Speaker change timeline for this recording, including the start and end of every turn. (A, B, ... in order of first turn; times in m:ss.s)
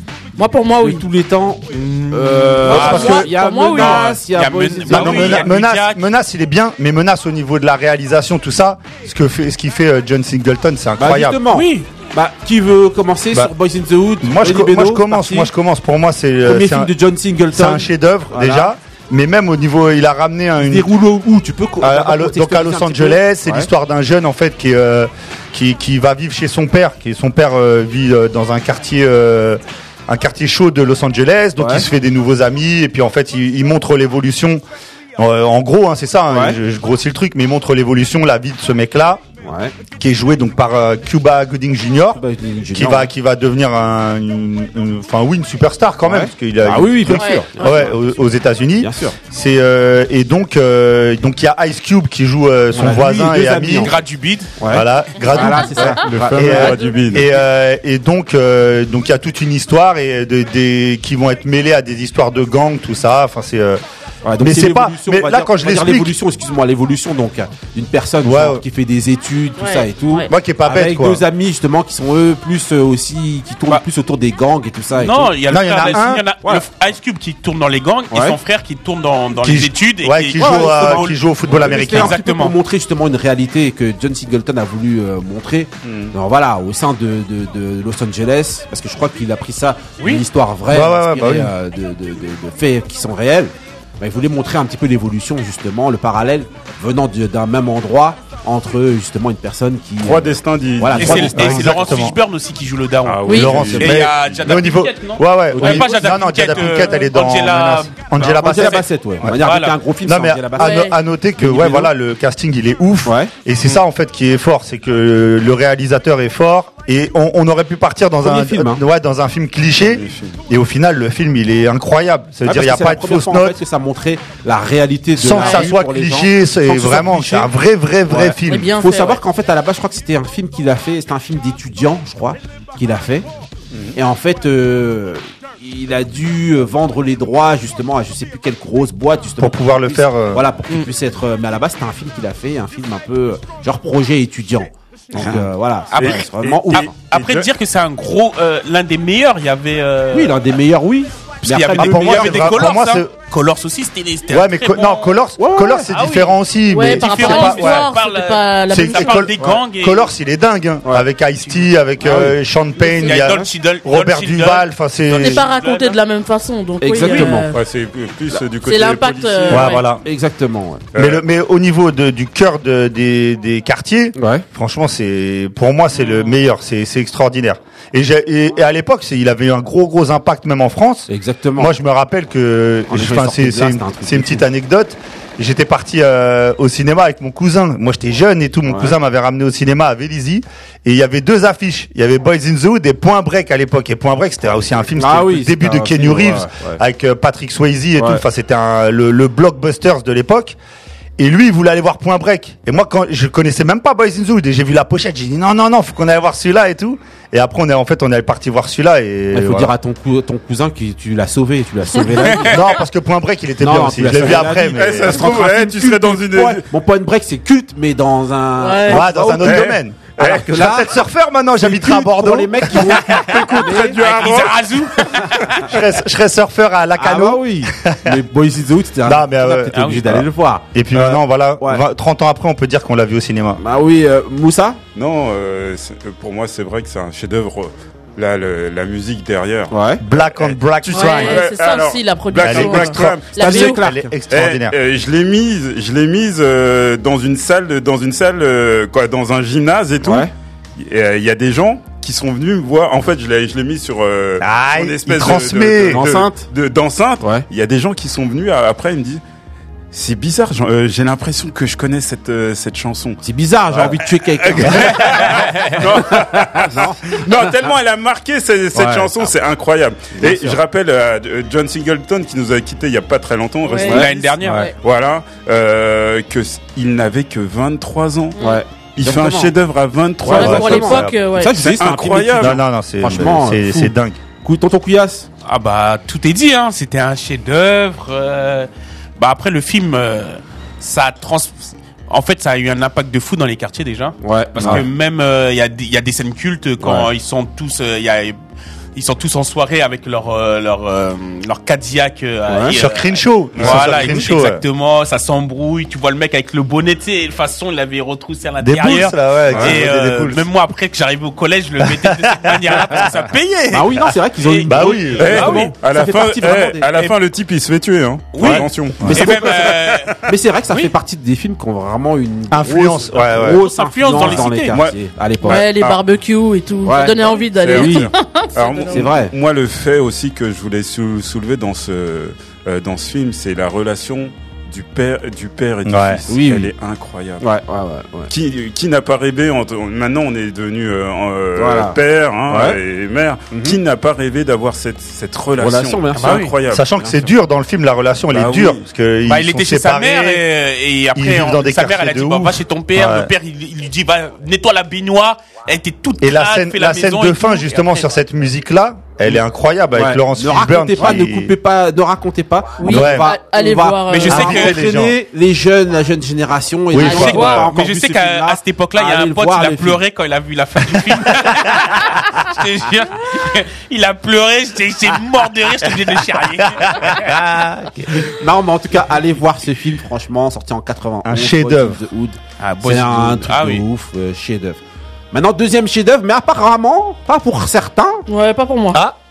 0:00.4-0:01.1 A
0:00.8-0:05.5 B
0:01.7-0:06.0 C
0:02.7-0:04.3 A
0:02.7-0:03.2 D
0:04.9-0:11.4 D
0:11.0-0:15.5 B
0:11.5-0:11.9 C
0:14.2-0:17.0 D
0:16.4-0:18.7 B
0:17.5-0:20.9 D
0:20.6-0:23.7 B
0:21.8-0:34.6 D
0:31.6-0:31.9 B
0:35.2-0:39.2 D
0:36.3-0:36.6 B
0:39.4-0:39.8 B
0:40.0-0:54.0 D
0:42.1-0:43.1 B
0:46.0-0:48.0 B
0:47.1-0:47.9 A
0:48.8-0:49.2 B
0:52.7-0:54.0 B
0:53.8-0:54.5 C
0:54.6-0:56.8 B
0:54.7-1:03.8 D
0:55.4-0:55.6 A
0:55.9-0:57.4 E
1:04.2-1:15.3 B
1:04.4-1:06.2 D
1:08.2-1:08.6 D
1:09.6-1:10.3 A
1:10.3-1:11.2 D
1:15.0-1:22.6 C
1:15.5-1:16.3 D
1:18.1-1:18.4 B
1:19.4-1:22.2 D
1:20.4-1:41.7 B
1:25.8-1:26.2 E
1:30.0-1:30.2 C
1:30.7-1:31.5 D
1:40.0-1:41.8 E
1:40.9-1:49.8 C
1:41.3-1:42.2 D
1:43.0-1:44.0 E
1:43.3-1:43.6 A
1:43.3-1:49.4 D
1:43.6-1:44.0 B
1:45.5-1:46.1 B
1:48.2-1:51.9 B
1:50.0-2:03.6 D
1:50.6-1:51.0 A
1:53.0-1:53.3 B
1:58.2-1:58.8 B
1:59.8-2:00.4 E
2:02.4-2:07.5 B
2:05.2-2:08.7 D
2:05.3-2:05.7 A
2:08.1-2:13.3 B
2:08.4-2:09.2 A
2:13.7-2:14.0 E
2:13.9-2:26.9 B
2:19.4-2:20.5 D
2:25.9-2:30.4 C
2:26.0-2:27.5 E
2:30.1-2:32.6 B
2:31.4-2:35.2 C
2:31.6-2:33.1 D
2:34.3-2:37.9 D
2:35.4-2:35.9 B
2:35.9-2:40.1 C
2:36.7-2:39.3 A
2:38.7-2:45.5 D
2:41.4-2:41.7 C
2:42.0-2:42.4 B
2:42.9-2:46.0 C
2:45.2-2:47.6 A
2:46.8-2:47.5 B
2:47.2-2:49.8 E
2:48.6-2:49.9 A
2:49.5-2:50.0 D
2:50.0-2:50.9 B
2:50.9-2:51.2 E
2:51.0-3:20.6 D
2:54.2-2:54.5 B
3:01.1-3:01.7 B
3:02.9-3:04.5 B
3:08.7-3:09.0 B
3:15.0-3:16.8 B
3:18.0-3:18.2 B
3:21.2-3:29.7 D
3:29.3-3:32.7 B
3:32.0-3:32.3 A
3:32.4-3:35.2 D
3:33.6-3:41.0 B
3:34.2-3:36.6 E
3:38.6-3:39.0 A
3:38.9-3:43.0 D
3:39.4-3:39.8 E
3:41.6-3:44.0 B
3:43.1-3:44.7 E
3:44.0-3:45.7 C
3:45.6-3:48.2 D
3:47.0-3:51.8 B
3:49.0-3:53.6 D
3:49.7-3:50.2 C
3:53.6-3:54.8 B
3:55.0-4:03.7 E
3:59.7-4:00.0 B
4:00.0-4:01.5 D
4:00.9-4:03.8 A
4:02.4-4:04.8 D
4:03.3-4:04.1 B
4:04.3-4:19.2 E
4:10.0-4:10.3 B
4:14.4-4:16.1 D
4:15.8-4:16.5 B
4:17.2-4:17.5 B
4:19.9-4:38.4 E
4:23.2-4:27.5 B
4:25.2-4:25.7 C
4:28.8-4:29.1 B
4:30.2-4:30.6 B
4:33.6-4:34.0 A
4:33.9-4:34.7 C
4:33.9-4:34.7 B
4:38.4-4:38.6 A
4:38.4-4:39.5 B
4:39.0-4:41.0 E
4:40.2-4:45.3 B
4:40.3-4:41.7 A
4:40.3-4:41.2 D
4:41.6-4:42.6 E
4:42.4-4:44.2 D
4:45.4-4:58.4 C
4:54.2-4:54.8 B
4:56.8-4:57.1 B
4:59.0-5:15.7 C
5:02.5-5:02.8 B
5:02.7-5:04.6 D
5:03.6-5:04.2 E
5:08.6-5:10.5 D
5:11.8-5:13.1 D
5:13.7-5:16.9 B
5:14.7-5:15.4 D
5:15.2-5:20.1 E
5:18.3-5:20.9 C
5:18.4-5:19.2 D
5:18.5-5:25.6 B
5:22.5-5:23.6 D
5:23.5-5:24.8 C
5:24.1-5:26.0 E
5:25.4-5:29.2 A
5:26.8-5:28.1 B
5:27.2-5:37.4 E
5:28.9-5:29.3 B
5:35.8-5:36.2 D
5:36.3-5:36.7 B
5:37.4-5:38.3 B
5:38.3-5:46.9 E
5:41.6-5:42.0 B
5:42.5-5:42.8 B
5:43.5-5:43.8 B
5:45.6-5:47.3 B
5:46.2-5:46.5 C
5:46.7-5:50.4 D
5:48.3-5:48.8 E
5:49.2-5:58.1 C
5:51.1-5:53.3 D
5:56.2-6:01.6 D
5:59.9-6:10.0 B
6:02.8-6:04.5 A
6:02.8-6:03.3 D
6:04.1-6:04.8 C
6:04.3-6:05.2 D
6:06.9-6:07.7 D
6:07.0-6:07.6 A
6:07.0-6:17.4 C
6:16.7-6:18.3 D
6:18.3-6:24.8 B
6:21.2-6:22.0 D
6:22.6-6:23.8 C
6:25.3-6:28.2 B
6:28.3-6:29.0 A